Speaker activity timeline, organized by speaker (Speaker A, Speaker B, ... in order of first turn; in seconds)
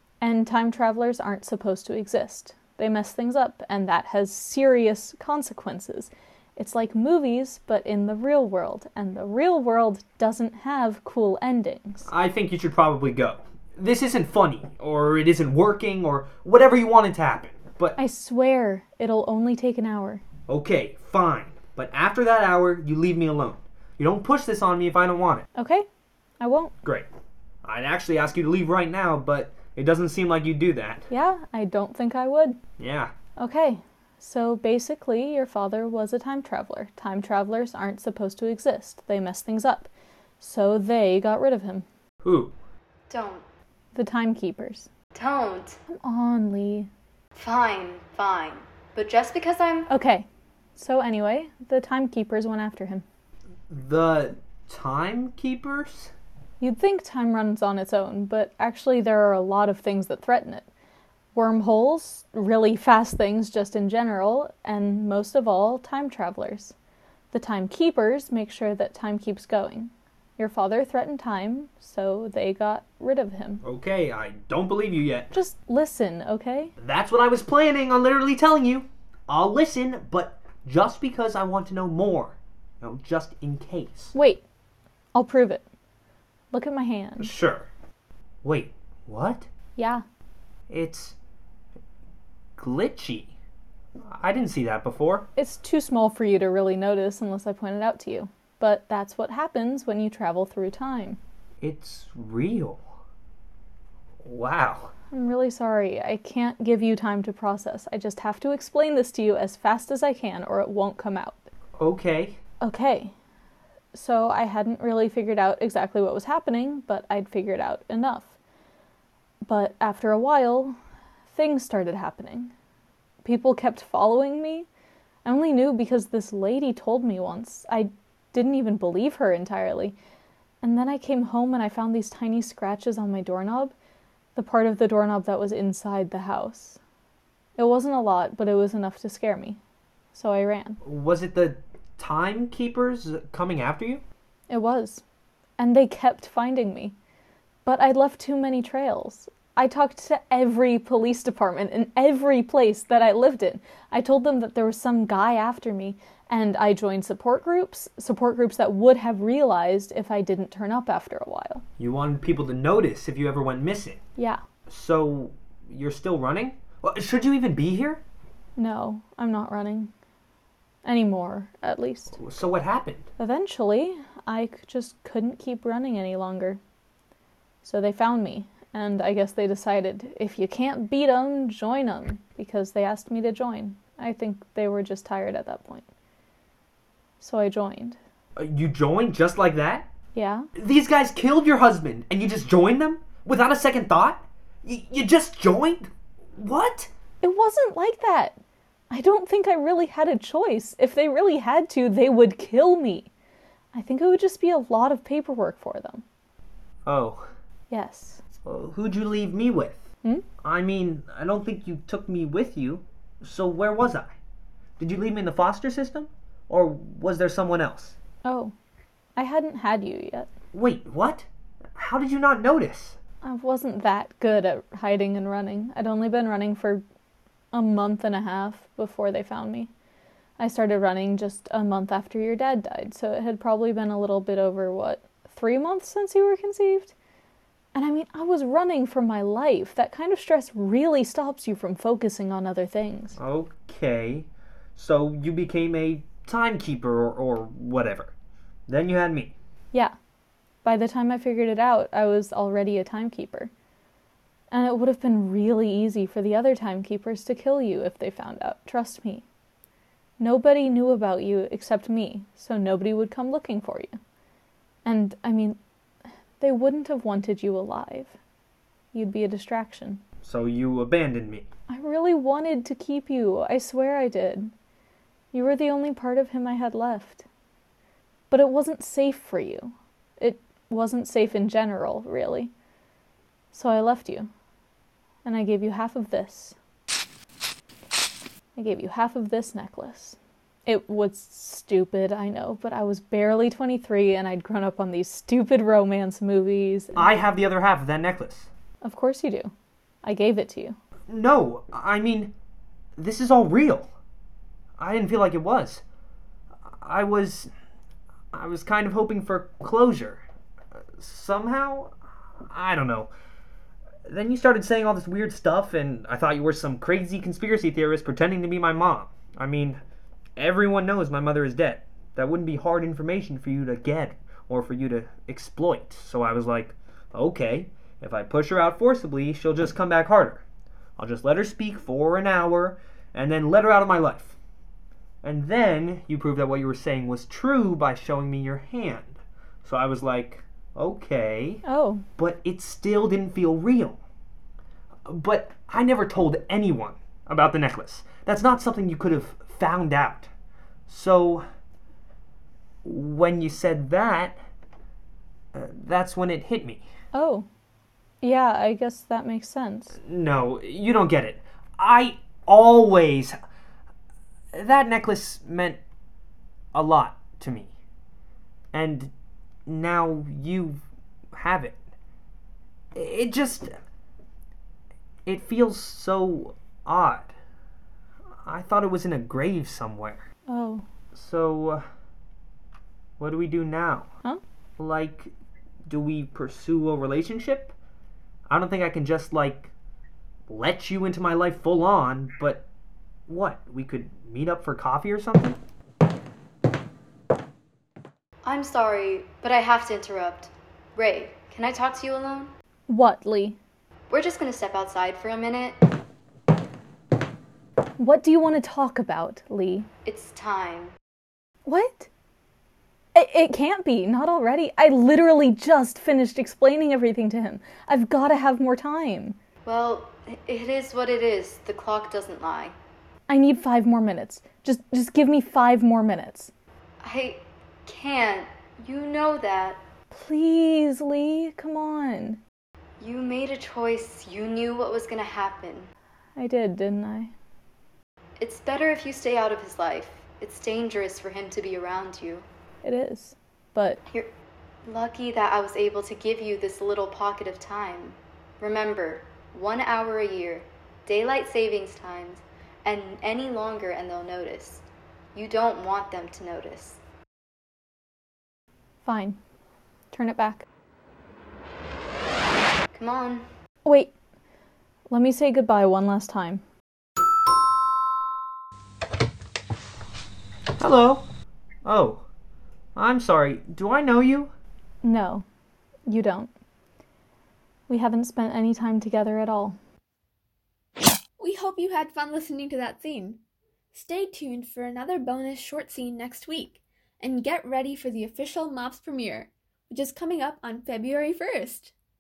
Speaker A: 0.2-12.1, 18.0-20.2, 25.6-25.9, 26.4-26.8, 31.1-32.6, 33.4-41.9, 43.9-44.9, 45.9-46.9, 49.9-53.0, 56.6-60.7, 61.4-66.8, 67.3-73.6, 75.3-76.7, 84.1-84.4, 85.1-85.7, 86.5-87.4, 89.8-90.0, 95.4-101.2, 105.1-111.4, 112.6-113.1, 113.9-118.3, 119.5-120.8, 121.3-122.5, 123.2-124.7, 125.2-130.0, 130.6-133.8, 134.3-136.8, 137.6-139.6, 140.1-140.8, 144.5-145.0, 145.6-146.9, 147.7-161.7, 168.6-169.9, 170.8-172.2, 173.2-176.6, 177.6-185.9, 187.2-188.0, 190.1-190.5, 197.2-198.4, 198.9-203.1, 203.7-206.0, 207.7-208.2, 218.2-218.5, 219.2-220.3, 223.2-226.8, 227.5-229.7, 230.4-236.9, 237.7-243.2, 250.6-253.5, 254.5-259.2, 260.2-264.0, 264.9-265.6, 266.4-268.2, 268.9-270.0, 271.7-274.5, 275.3-277.2, 278.3-282.5, 283.5-284.3, 285.2-286.6, 288.6-297.1, 298.8-300.8, 341.6-342.1, 357.1-357.5, 358.2-360.0, 380.5-380.9, 402.9-403.6, 408.0-409.9, 411.7-412.1, 413.1-419.4, 423.3-426.5, 430.1-432.4, 436.4-437.3, 442.8-444.0, 459.0-459.4, 460.1-460.6, 463.9-464.1, 465.1-466.6, 475.0-475.5, 476.1-476.5, 477.9-479.8
Speaker B: 12.1-18.0, 20.5-25.5, 27.6-31.1, 32.8-33.1, 42.2-42.6, 53.7-56.1, 73.6-75.3, 76.8-84.2, 87.2-87.7, 88.4-89.5, 90.7-91.2, 92.6-93.3, 94.0-95.3, 101.6-102.8, 104.2-104.9, 111.8-112.4, 140.8-144.0, 161.8-164.0, 164.7-168.0, 172.2-173.1, 188.4-189.9, 190.6-196.9, 206.9-207.3, 208.4-209.8, 210.4-214.2, 214.8-218.0, 220.5-223.0, 243.2-248.1, 248.7-249.3, 270.2-271.5, 296.9-298.5, 301.1-302.3, 303.0-303.9, 304.8-305.8, 306.7-307.5, 308.3-310.2, 311.0-311.9, 312.5-313.1, 314.1-319.8, 320.4-330.4, 331.0-334.4, 335.2-341.6, 342.2-344.0, 345.1-350.3, 350.9-351.5, 352.8-354.4, 355.5-356.9, 360.1-363.4, 364.5-365.8, 366.7-367.7, 368.7-369.1, 369.7-370.8, 371.3-371.8, 372.9-373.7, 375.3-377.3, 378.4-380.3, 381.1-381.9, 383.2-384.1, 384.8-385.3, 385.9-387.8, 388.5-389.7, 390.5-392.7, 393.3-395.6, 470.8-471.3, 471.9-472.3, 472.9-474.5
Speaker C: 43.1-43.5, 45.1-45.8, 47.4-49.9, 398.4-402.5, 404.1-405.8, 410.1-410.9, 419.7-422.8, 427.0-429.8, 433.0-435.9, 438.4-442.5, 444.9-457.0, 462.9-463.5
Speaker D: 481.4-483.4, 483.9-491.9